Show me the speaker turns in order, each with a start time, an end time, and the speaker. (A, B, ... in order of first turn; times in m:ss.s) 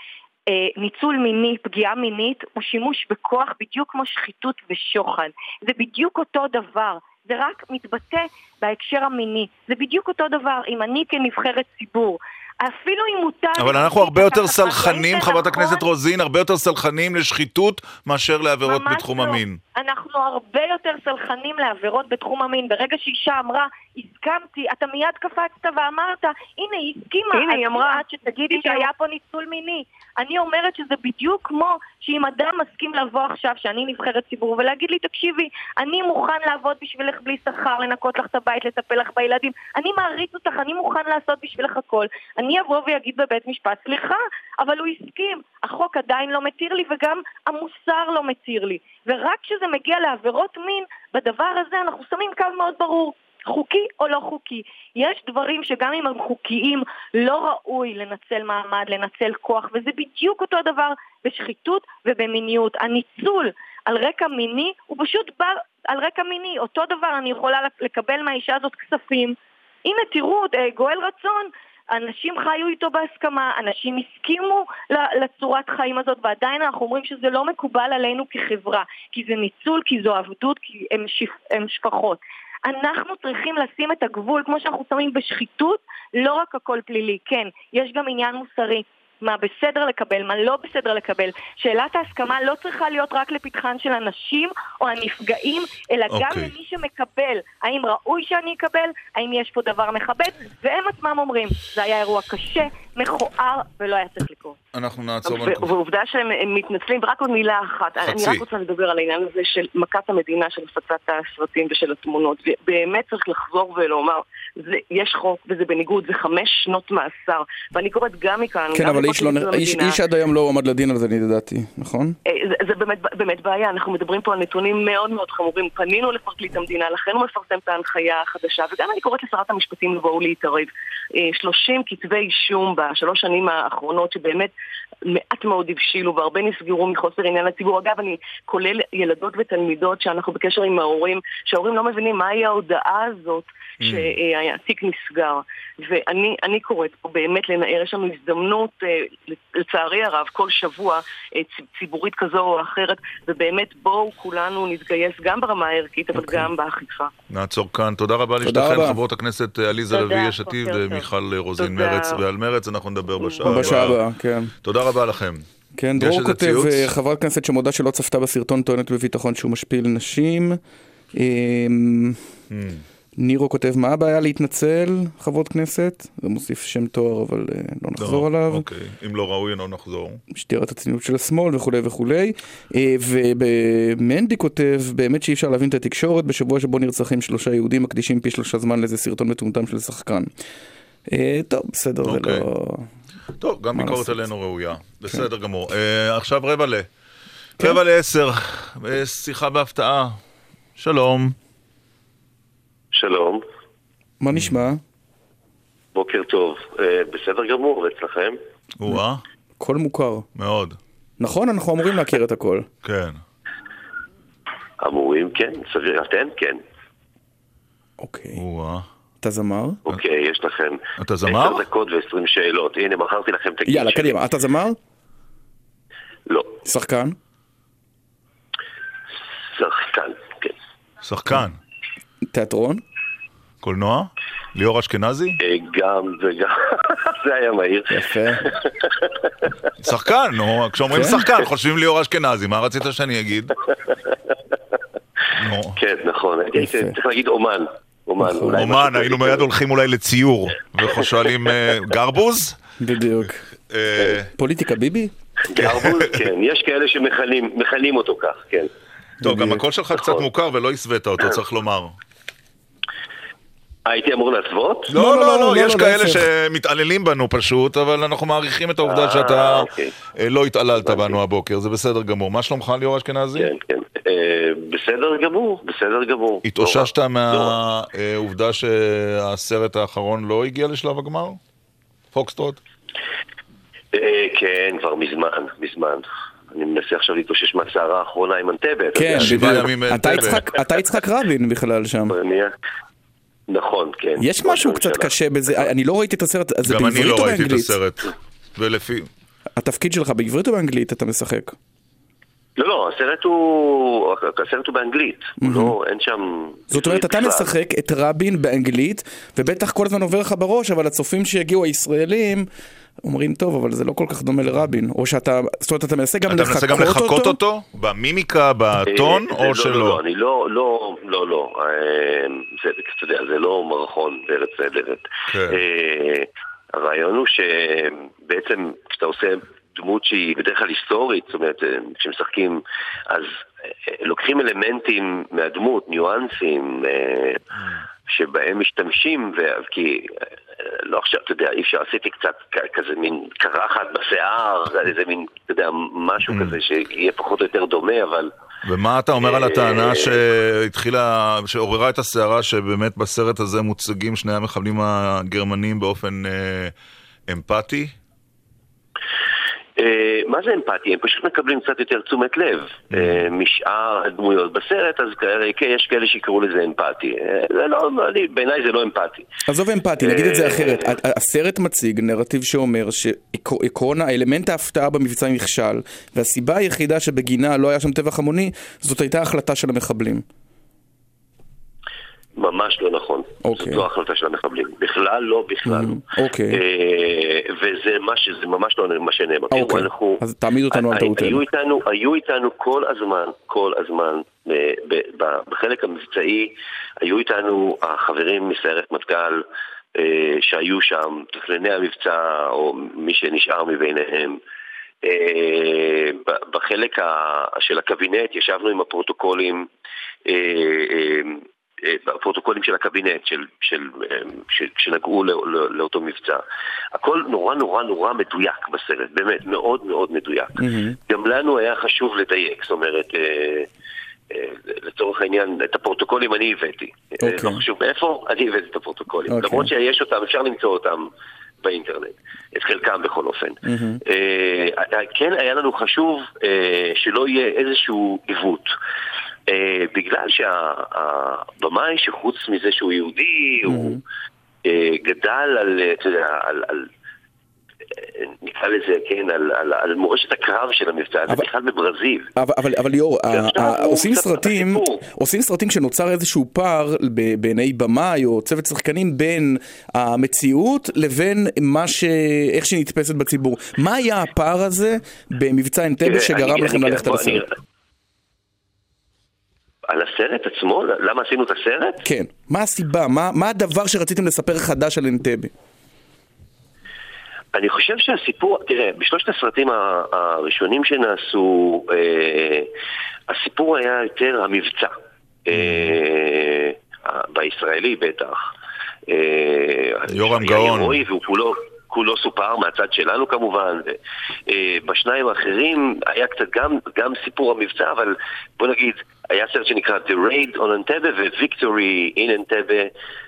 0:00.5-0:15.8 A
0:13.6-0:19.6 B
0:18.6-1:44.6 A
0:27.3-0:28.9 C
1:36.1-1:36.5 B
1:44.7-1:45.7 B
1:45.2-2:00.0 C
1:48.0-1:48.4 B
1:58.7-2:02.2 D
2:02.3-2:14.5 C
2:15.1-2:37.1 C
2:23.8-2:24.1 B
2:36.2-2:36.5 D
2:37.3-2:44.0 B
2:38.4-2:39.0 D
2:39.9-2:41.0 C
2:40.1-2:41.0 A
2:41.6-2:42.2 C
2:43.2-2:43.6 C
2:43.4-2:44.5 D
2:44.6-2:45.4 B
2:45.8-2:50.6 D
2:46.0-2:46.9 B
2:51.1-2:52.2 D
2:52.5-2:52.8 B
2:53.2-2:58.6 D
2:58.0-3:00.2 B
3:00.3-3:10.3 D
3:11.1-3:12.9 D
3:12.0-3:12.5 B
3:13.4-3:16.9 B
3:13.8-3:14.3 D
3:17.6-3:20.2 B
3:20.8-3:21.4 B
3:22.9-3:23.4 E
3:24.2-3:24.8 D
3:24.3-3:24.6 B
3:25.9-3:28.4 E
3:28.8-3:29.2 B
3:29.6-3:30.3 D
3:30.4-3:30.8 B
3:31.2-3:32.7 D
3:32.8-3:33.2 B
3:34.8-3:36.6 E
3:38.0-3:38.4 D
3:38.4-3:38.9 B
3:39.2-3:39.8 D
3:39.9-3:44.2 E
3:41.0-3:41.6 B
3:43.7-3:44.8 D
3:46.3-3:46.5 E
3:46.6-3:47.2 D
3:49.6-3:50.5 E
3:51.0-3:51.6 B
3:52.3-3:52.8 D
3:53.6-3:55.4 B
3:55.4-3:59.5 E
3:57.9-3:58.4 D
3:59.8-4:03.5 B
4:00.9-4:01.2 D
4:05.4-4:05.8 B
4:05.8-4:09.5 E
4:06.6-4:07.0 D
4:08.2-4:08.6 D
4:08.4-4:12.6 B
4:12.8-4:13.5 D
4:13.7-4:14.3 B
4:14.4-4:15.1 D
4:15.5-4:18.7 E
4:15.6-4:16.1 B
4:19.2-4:19.6 D
4:19.2-4:22.0 B
4:19.9-4:20.3 E
4:23.9-4:24.9 E
4:24.9-4:33.5 B
4:24.9-4:26.2 D
4:28.8-4:29.9 E
4:30.8-4:31.2 E
4:33.4-4:37.6 E
4:36.4-4:41.4 B
4:42.1-4:42.6 B
4:43.9-4:49.7 E
4:49.0-4:52.2 D
4:49.2-4:50.5 B
4:52.1-4:52.5 E
4:53.5-4:55.1 E
4:54.2-4:57.8 D
4:56.6-4:59.1 B
4:59.6-5:01.6 D
5:02.6-5:07.5 E
5:05.4-5:05.8 D
5:06.7-5:12.5 D
5:13.0-5:17.4 D
5:16.3-5:20.0 B
5:18.9-5:37.4 E
5:25.3-5:25.6 B
5:38.1-5:48.3 E
5:46.3-5:46.6 B
5:48.6-5:56.7 B
5:49.2-5:50.2 E
5:57.3-5:58.0 B
5:59.8-6:09.3 E
6:02.9-6:03.2 B
6:09.5-6:20.2 D
6:10.0-6:11.0 E
6:22.4-6:26.0 E
6:23.4-6:23.8 D
6:25.6-6:26.6 D
6:26.5-6:39.4 E
6:29.5-6:31.4 D
6:40.0-6:44.4 E
6:45.0-6:49.7 E
6:50.3-6:56.4 E
6:56.9-7:00.5 E
7:00.6-7:01.0 D
7:01.1-7:03.7 E
7:04.3-7:11.1 E
7:07.2-7:07.6 D
7:09.3-7:09.7 D
7:11.6-7:18.7 E
7:13.6-7:14.0 D
7:19.5-7:24.0 E
7:23.7-7:24.0 D
7:24.7-7:26.9 E
7:28.0-7:32.3 E
7:32.4-7:47.4 D
7:33.3-7:35.0 E
7:46.0-7:47.5 E
7:49.9-7:52.0 E
7:52.0-7:55.5 D
7:57.5-8:02.7 E
8:03.3-8:04.9 E
8:05.5-8:08.4 E
8:05.5-8:05.9 B
8:09.1-8:14.0 E
8:10.1-8:11.0 B
8:14.5-8:22.9 E